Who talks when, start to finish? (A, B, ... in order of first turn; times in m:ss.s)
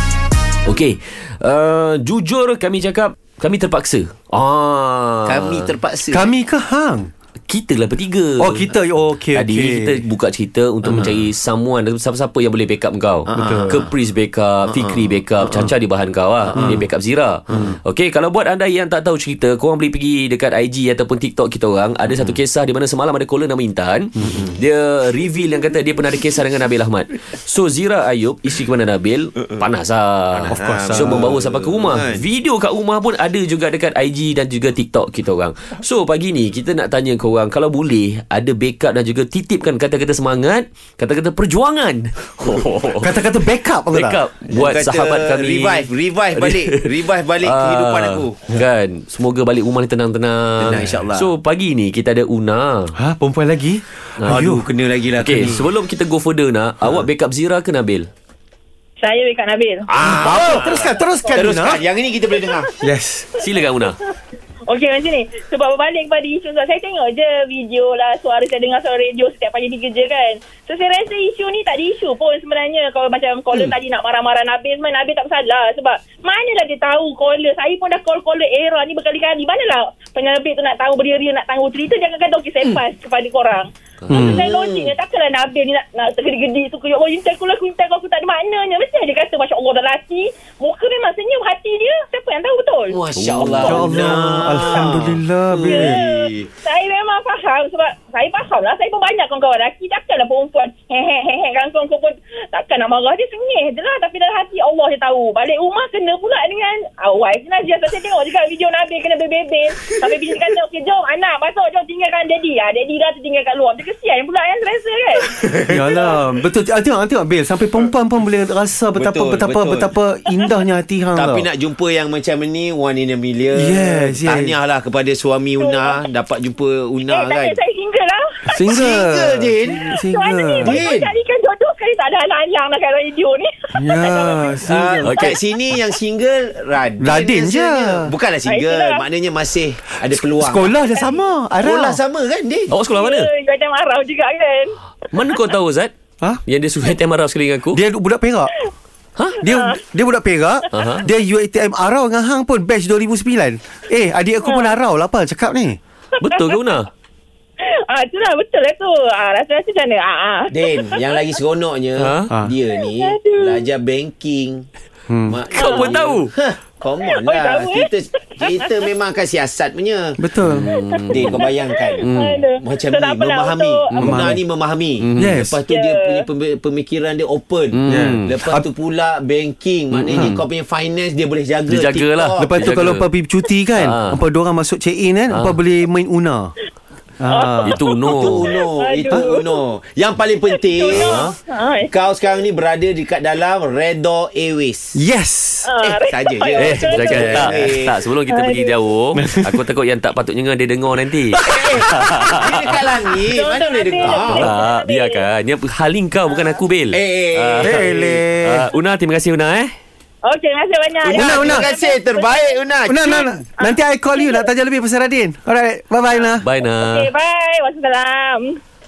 0:00.7-0:05.8 A
0:05.3-0:06.3 B
0:06.1-0:07.1 C
0:07.5-0:08.7 A
0:08.4-0:10.0 C
0:09.3-0:43.2 A
0:13.3-0:13.9 B
0:13.3-0:13.8 C
0:14.6-0:15.7 B
0:16.6-0:16.8 C
0:24.2-0:24.5 C
0:30.4-0:31.2 C
0:30.5-0:32.2 B
0:43.0-0:44.2 C
0:43.9-0:52.9 A
0:44.5-0:48.5 B
0:50.6-0:51.3 B
0:53.0-0:54.6 C
0:54.2-0:54.5 A
0:54.3-0:55.7 B
0:55.1-0:58.1 A
0:59.0-0:59.9 D
0:59.9-1:02.7 B
1:00.0-1:00.9 A
1:00.0-1:01.8 C
1:02.8-1:03.3 C
1:03.4-1:04.0 A
1:04.7-1:33.0 D
1:24.0-1:24.3 A
1:24.1-1:24.5 C
1:24.2-1:24.9 B
1:32.9-1:36.5 B
1:33.2-1:34.0 A
1:33.6-1:36.0 C
1:35.6-1:55.3 D
1:55.3-1:56.0 B
1:55.7-2:01.5 C
1:59.0-1:59.9 B
2:01.2-2:07.6 B
2:03.5-2:04.5 C
2:05.6-2:06.0 D
2:07.1-2:08.5 D
2:08.5-2:10.8 C
2:08.7-2:09.9 B
2:09.8-2:14.6 D
2:10.6-2:11.1 B
2:13.7-2:15.2 C
2:14.6-2:20.8 B
2:15.0-2:15.4 A
2:17.0-2:18.1 C
2:18.4-2:19.1 D
2:20.3-2:22.0 C
2:21.0-2:21.3 D
2:21.6-2:22.7 B
2:22.7-2:23.3 A
2:22.9-2:25.4 D
2:25.1-2:25.9 A
2:26.5-2:27.8 A
2:27.7-2:28.5 C
2:29.4-2:35.8 C
2:29.5-2:29.8 D
2:30.7-2:31.1 A
2:34.4-2:34.7 D
2:36.2-2:36.7 D
2:36.2-2:36.9 A
2:37.6-2:41.2 D
2:40.5-2:44.7 B
2:42.0-2:42.3 A
2:42.8-2:43.6 D
2:45.1-2:45.4 C
2:45.3-2:50.2 B
2:45.6-2:46.3 A
2:45.6-2:46.0 D
2:47.0-2:47.9 D
2:50.2-2:50.7 C
2:50.4-2:51.4 A
2:50.7-2:54.3 D
2:51.1-3:02.7 B
2:52.0-2:52.4 A
2:54.0-2:54.4 C
2:55.0-2:55.4 A
2:55.2-2:55.6 C
2:55.7-2:56.3 D
2:57.7-2:58.4 A
2:57.9-2:58.7 C
2:59.9-3:00.4 A
3:00.1-3:00.4 C
3:01.7-3:03.1 A
3:02.4-3:06.5 C
3:03.8-3:04.2 A
3:05.3-3:05.6 A
3:07.2-3:07.8 C
3:07.3-3:09.6 D
3:07.6-3:08.6 A
3:08.1-3:11.4 B
3:10.5-3:11.9 D
3:10.9-3:11.3 A
3:11.9-3:15.0 B
3:14.9-3:15.7 C
3:15.6-3:17.8 D
3:15.8-3:18.0 B
3:16.6-3:22.6 A
3:18.3-3:18.8 D
3:19.2-3:19.6 C
3:21.4-3:24.5 B
3:23.3-3:25.3 D
3:24.1-3:29.7 A
3:26.9-3:28.3 B
3:27.6-3:28.7 C
3:30.2-3:34.5 D
3:31.0-3:33.2 B
3:31.1-3:31.7 C
3:32.9-3:36.5 C
3:36.1-3:38.6 D
3:36.4-3:37.1 A